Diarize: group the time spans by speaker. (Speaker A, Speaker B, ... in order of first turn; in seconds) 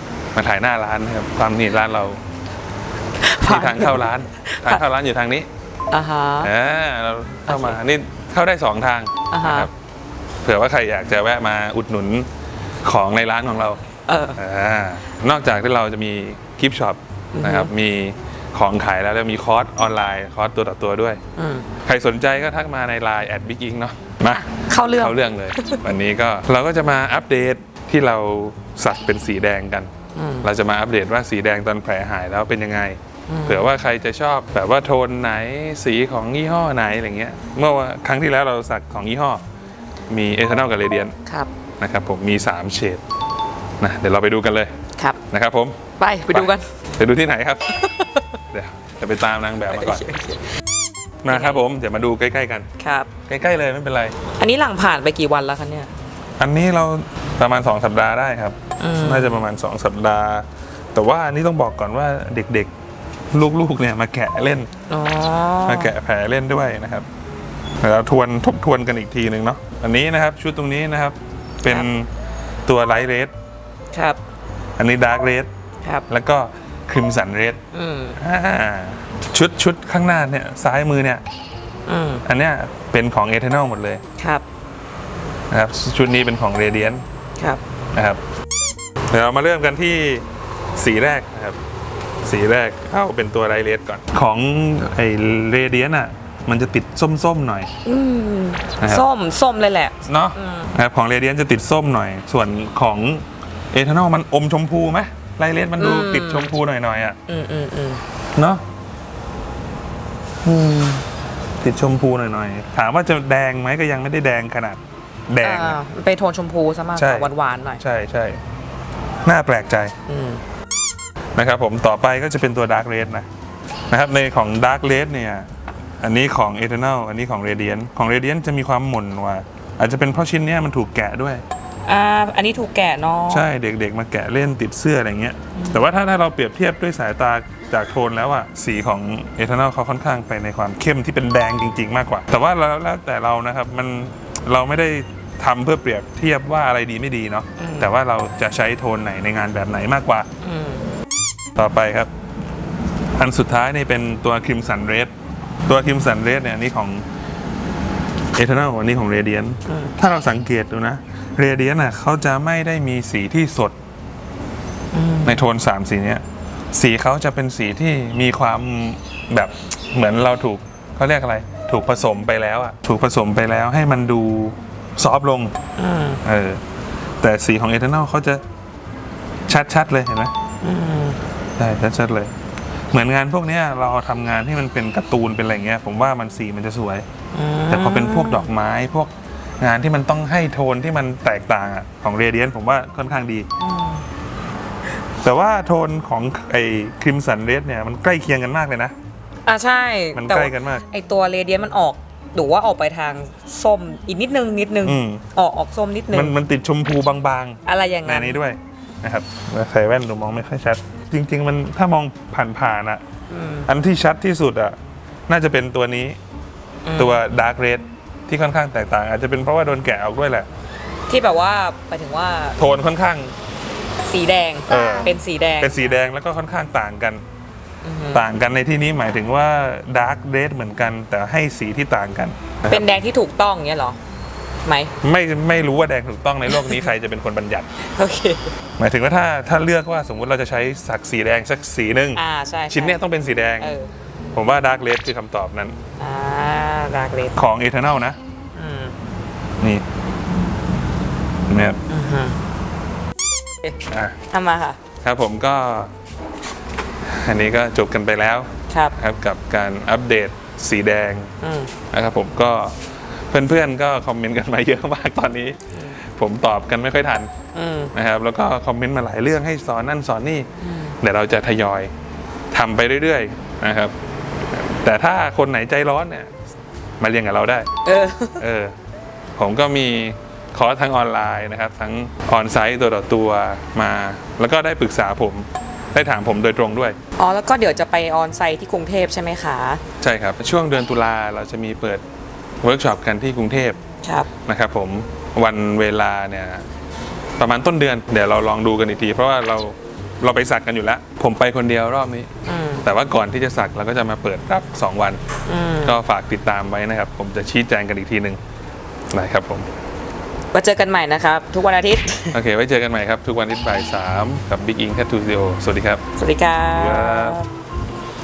Speaker A: 0.3-2.2, 3.4-5.5, 6.4-9.7, 10.4-12.3, 12.8-21.2, 21.8-29.9, 30.4-39.4, 40.1-41.2, 41.8-43.0, 43.8-44.8, 45.3-47.9, 48.5-50.1, 51.2-52.7, 53.3-54.2, 56.4-62.7, 63.3-64.7, 65.7-67.1, 67.8-72.1, 72.7-73.3, 74.8-75.5, 76.1-77.6, 78.2-81.2, 82.2-84.0, 85.5-87.0, 87.9-88.2, 89.1-91.6, 92.2-97.7, 100.0-107.2, 108.3-108.6, 111.6-115.8, 117.0-118.4, 119.2-120.0, 121.4-123.3, 123.9-125.5, 126.0-131.4, 133.3-150.3, 151.6-152.1, 153.2-155.1, 155.7-157.1, 158.3-163.8, 165.2-175.6, 176.2-176.6, 177.2-178.4, 179.5-180.3, 181.6-182.3, 182.9-187.1, 187.7-193.5, 195.2-198.9, 200.2-200.8, 204.8-205.2, 206.1-213.0, 213.7-214.8, 215.3-216.2, 217.0-220.5, 222.6-223.3, 224.7-227.2, 228.1-232.9, 235.0-237.7, 238.8-243.7, 244.3-245.8, 247.3-248.2, 251.5-251.8, 253.9-254.2, 255.0-255.9, 257.1-261.3, 261.9-267.3, 267.9-271.9, 272.5-273.9, 274.5-276.3, 277.0-277.7, 278.4-278.8, 279.4-287.0, 290.0-292.0, 292.6-293.8, 294.5-296.7, 297.4-302.3, 302.8-305.2, 305.8-308.4, 309.1-309.7, 312.3-316.0, 316.7-317.4
Speaker B: 3.2-4.8, 5.9-6.5, 7.5-7.8, 9.3-9.7, 14.1-14.4, 17.4-17.7, 21.4-21.7, 24.3-25.8, 30.1-30.5, 33.3-33.7, 46.0-46.7, 47.7-48.3, 49.7-50.5, 51.3-51.6, 52.8-53.1, 54.4-55.9, 58.8-59.4, 64.9-65.9, 73.9-74.2, 77.7-78.2, 81.9-82.2, 84.2-84.5, 97.8-100.7, 105.8-106.5, 107.3-108.0, 110.4-111.0, 115.4-117.8, 120.1-120.4, 131.9-133.5, 135.6-135.8, 147.6-147.9, 150.4-150.9, 164.9-165.4, 175.8-176.2, 180.6-181.2, 187.3-188.5, 193.6-194.1, 199.5-206.3, 207.7-208.4, 213.3-213.7, 216.9-217.2, 221.1-222.6, 224.1-226.0, 227.8-228.3, 232.7-234.0, 234.6-234.9, 236.5-236.9, 237.8-238.5, 242.2-243.0, 243.6-243.9, 246.0-247.3, 248.6-248.9, 251.9-252.4, 254.3-254.8, 258.7-259.0, 261.4-261.7, 267.5-267.9, 270.6-271.0, 277.9-278.4, 287.2-289.8, 294.0-294.3, 302.5-302.9, 305.5-306.0, 310.5-312.4, 316.2-317.5